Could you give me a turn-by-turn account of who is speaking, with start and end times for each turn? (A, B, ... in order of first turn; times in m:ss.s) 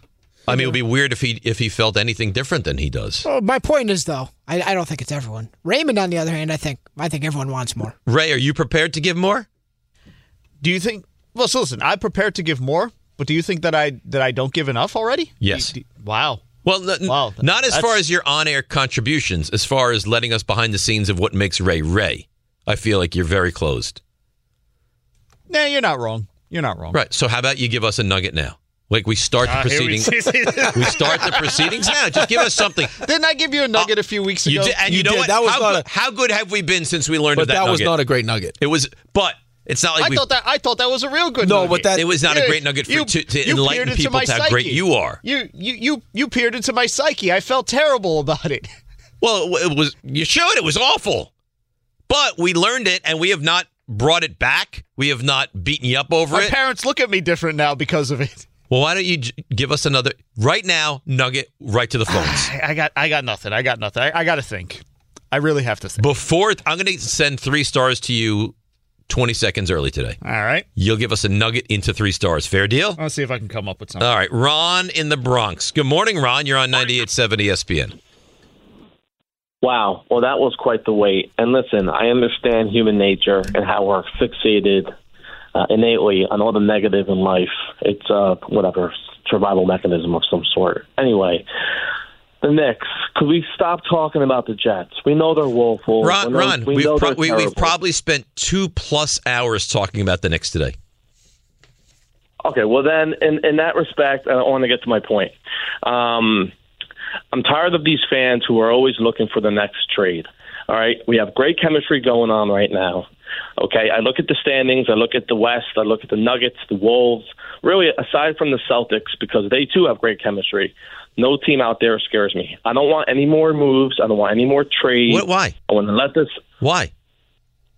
0:00.5-0:03.2 A
0:03.2-0:07.9 B
0:08.0-0:09.4 A
0:10.6-0:16.4 C
0:15.4-0:15.7 A
0:16.6-0:24.0 A
0:17.0-0:18.0 C
0:25.5-0:27.0 C
0:26.9-0:33.0 A
0:29.4-0:34.8 C
0:34.4-0:37.9 A
0:34.8-0:35.9 D
0:37.3-0:38.6 D
0:38.6-0:40.2 A
0:40.0-0:48.7 C
0:41.4-0:42.1 D
0:41.9-0:45.2 A
0:49.2-0:51.3 A
0:52.1-0:56.5 A
0:56.3-0:58.5 C
0:58.7-1:02.5 A
1:02.1-1:06.0 C
1:06.0-1:08.5 A
1:09.1-1:10.2 A
1:10.2-1:10.6 C
1:10.8-1:13.0 A
1:13.0-1:14.1 C
1:14.0-1:17.9 A
1:19.6-1:24.9 E
1:25.5-1:31.4 E
1:32.4-1:37.7 E
1:36.0-1:40.8 A
1:42.4-1:46.5 E
1:47.3-1:53.0 E
1:53.6-2:06.4 E
2:05.1-2:05.6 A
2:06.6-2:06.9 A